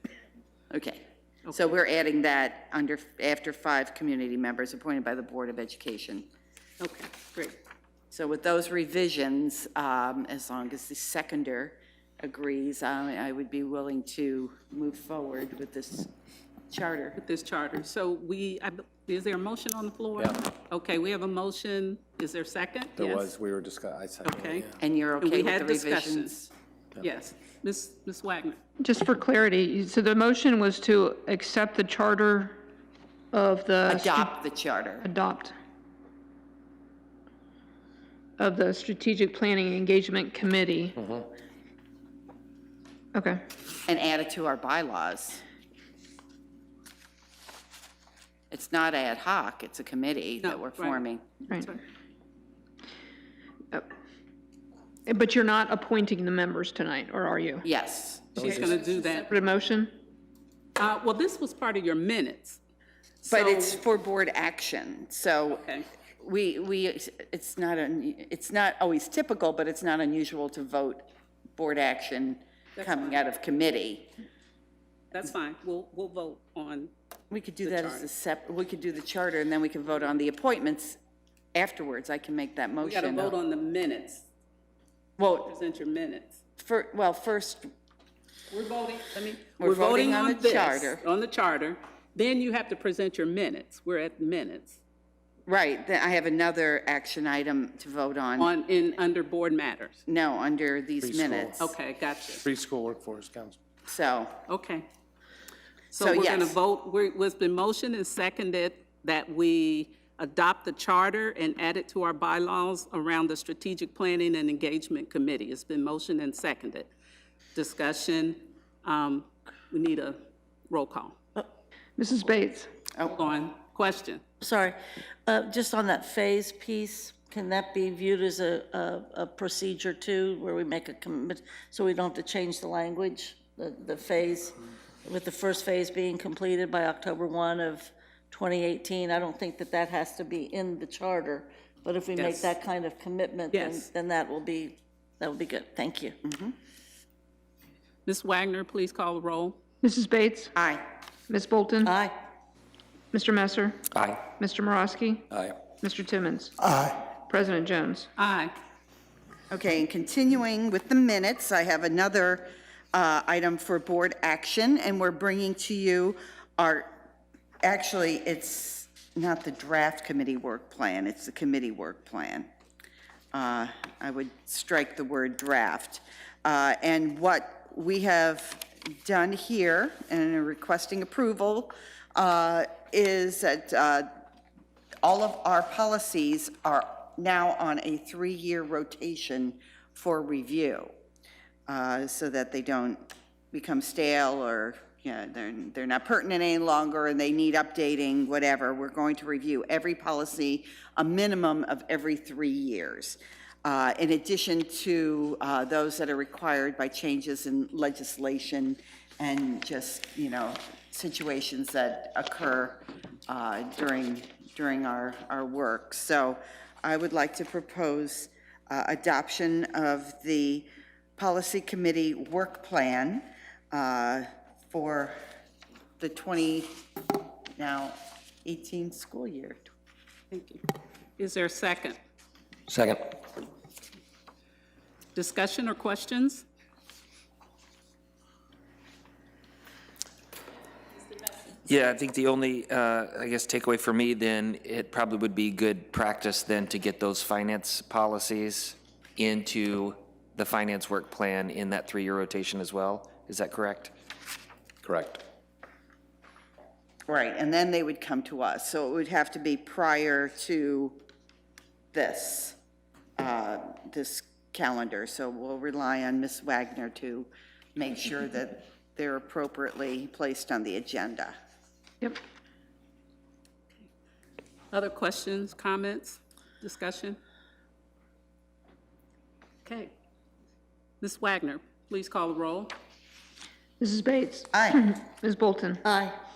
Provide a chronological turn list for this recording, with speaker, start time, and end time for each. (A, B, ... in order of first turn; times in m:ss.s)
0:00.7-0:06.3 A
0:06.8-0:07.6 B
0:08.1-0:16.1 A
0:16.7-0:17.2 A
0:17.2-0:23.3 B
0:23.0-0:24.7 C
0:24.2-0:24.7 B
0:24.8-0:26.5 A
0:25.2-0:26.4 B
0:27.0-0:28.6 B
0:28.8-0:32.6 D
0:33.3-0:34.3 D
0:33.9-0:35.1 A
0:35.0-0:35.5 D
0:38.4-0:41.1 D
0:43.1-0:43.4 D
0:43.9-0:45.4 A
0:48.5-0:51.2 A
0:50.4-0:51.8 B
0:55.1-0:57.7 D
0:57.6-0:58.4 A
0:58.4-0:59.3 B
0:58.4-0:58.8 C
0:59.3-0:59.9 D
1:00.8-1:02.6 B
1:03.2-1:03.8 B
1:03.3-1:05.7 A
1:05.5-1:05.9 B
1:06.2-1:14.1 A
1:12.8-1:13.2 B
1:15.1-1:16.9 B
1:17.3-1:21.0 A
1:17.6-1:18.1 B
1:21.6-1:23.3 A
1:22.8-1:24.3 B
1:25.2-1:25.5 A
1:25.4-1:26.4 B
1:26.6-1:27.7 A
1:28.5-1:34.8 B
1:29.6-1:31.0 A
1:35.5-1:38.5 A
1:38.4-1:40.0 B
1:40.1-1:41.7 A
1:41.0-1:41.6 C
1:41.6-1:42.4 B
1:42.4-1:43.6 C
1:43.9-1:44.4 A
1:44.5-1:44.9 B
1:45.9-1:56.9 B
1:46.0-1:46.6 A
1:57.5-2:01.2 B
2:02.0-2:02.7 D
2:03.0-2:04.2 B
2:04.4-2:26.2 E
2:22.2-2:22.6 B
2:23.5-2:23.9 B
2:26.2-2:26.6 A
2:28.1-2:29.6 B
2:29.8-2:30.5 D
2:30.6-2:30.8 A
2:31.3-2:32.0 D
2:31.8-2:32.2 E
2:33.1-2:38.1 D
2:38.2-2:38.5 B
2:39.5-2:46.9 A
2:47.6-2:52.5 A
2:53.3-3:04.1 A
3:05.0-3:10.9 A
3:11.7-3:45.2 A
3:46.0-3:49.6 A
3:50.3-3:50.6 B
3:51.2-3:52.0 B
3:55.2-3:56.5 B
4:01.7-4:08.6 F
4:09.2-4:09.6 F
4:10.4-4:13.9 F
4:14.8-4:15.2 C
4:17.1-4:21.0 A
4:21.9-4:22.6 A
4:23.2-4:31.4 A
4:34.7-4:37.2 B
4:39.6-4:40.0 B
4:41.0-4:42.7 B
4:43.8-4:45.8 D
4:44.5-4:44.8 A
4:45.8-4:46.2 E